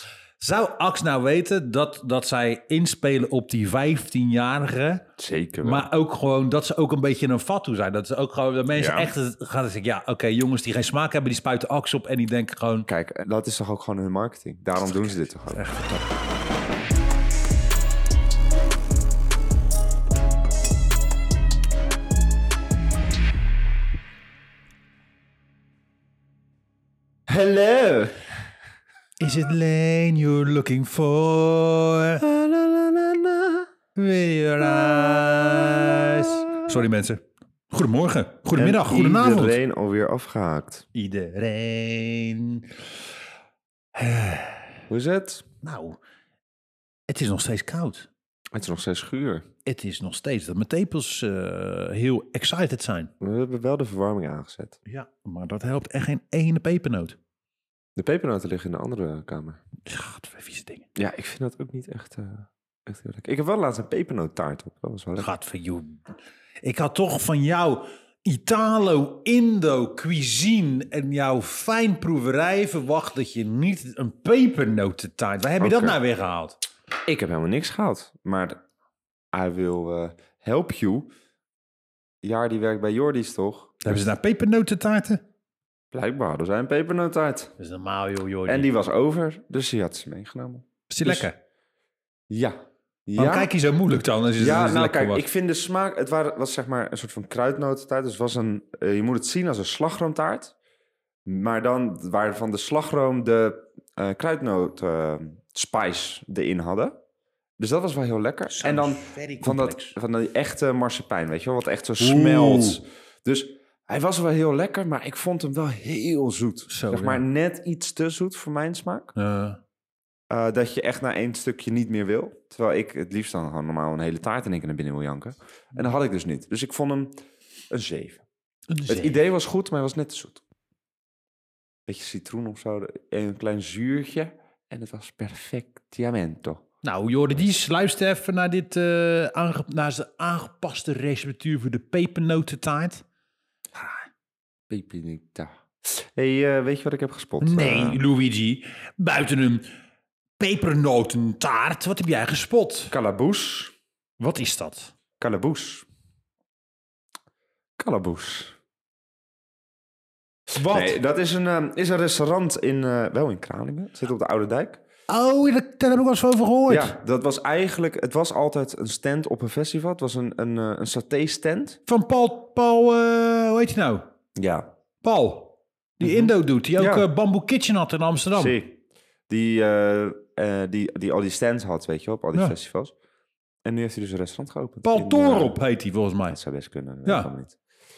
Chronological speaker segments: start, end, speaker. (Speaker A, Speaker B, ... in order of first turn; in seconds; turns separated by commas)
Speaker A: 0.4-5.1, Speaker B: 5.2-5.9, Speaker A: 5.6-12.9, Speaker B: 8.8-9.1, Speaker B: 12.9-15.7, Speaker A: 15.5-16.1, Speaker B: 27.3-28.2, Speaker A: 29.2-32.2, Speaker B: 32.2-33.7, Speaker A: 34.0-39.6, Speaker B: 35.1-36.3, Speaker B: 38.5-40.9, Speaker A: 40.9-42.8, Speaker A: 44.0-44.8, Speaker B: 44.9-45.5, Speaker A: 45.6-46.0, Speaker A: 47.1-48.1, Speaker B: 48.5-49.5, Speaker A: 49.6-53.1, Speaker B: 53.2-54.8, Speaker A: 54.9-57.2, Speaker B: 58.0-59.6, Speaker A: 59.9-60.9, Speaker B: 61.0-65.3, Speaker A: 65.2-66.0, Speaker A: 66.6-76.6, Speaker B: 75.6-76.0, Speaker B: 77.0-78.6, Speaker B: 79.3-81.1, Speaker B: 82.2-84.1, Speaker A: 83.8-85.2, Speaker B: 85.9-87.5, Speaker A: 87.6-88.7, Speaker B: 88.5-91.3, Speaker A: 90.9-91.4, Speaker B: 92.3-93.5, Speaker A: 93.2-95.2, Speaker B: 94.4-100.5, Speaker B: 101.2-107.0, Speaker B: 107.6-119.1, Speaker A: 108.5-110.0, Speaker A: 112.0-112.8, Speaker A: 116.7-117.2, Speaker A: 119.2-119.6, Speaker B: 120.3-127.1, Speaker B: 127.7-128.2, Speaker A: 128.7-129.2, Speaker B: 128.9-130.4, Speaker B: 131.9-136.7, Speaker A: 136.8-143.0, Speaker A: 143.8-144.1, Speaker B: 144.7-148.0, Speaker A: 147.4-149.7, Speaker A: 150.4-152.9, Speaker B: 152.9-153.8, Speaker A: 154.2-154.9, Speaker B: 155.2-155.9, Speaker B: 157.8-158.6, Speaker A: 160.6-161.0, Speaker B: 160.7-164.8, Speaker A: 165.1-167.0, Speaker B: 166.7-171.8, Speaker A: 171.9-174.1, Speaker B: 174.4-174.7, Speaker A: 175.0-178.6, Speaker B: 176.0-177.1, Speaker B: 178.3-182.9, Speaker B: 183.6-185.6, Speaker A: 184.8-186.4, Speaker B: 186.3-187.6, Speaker A: 187.1-187.3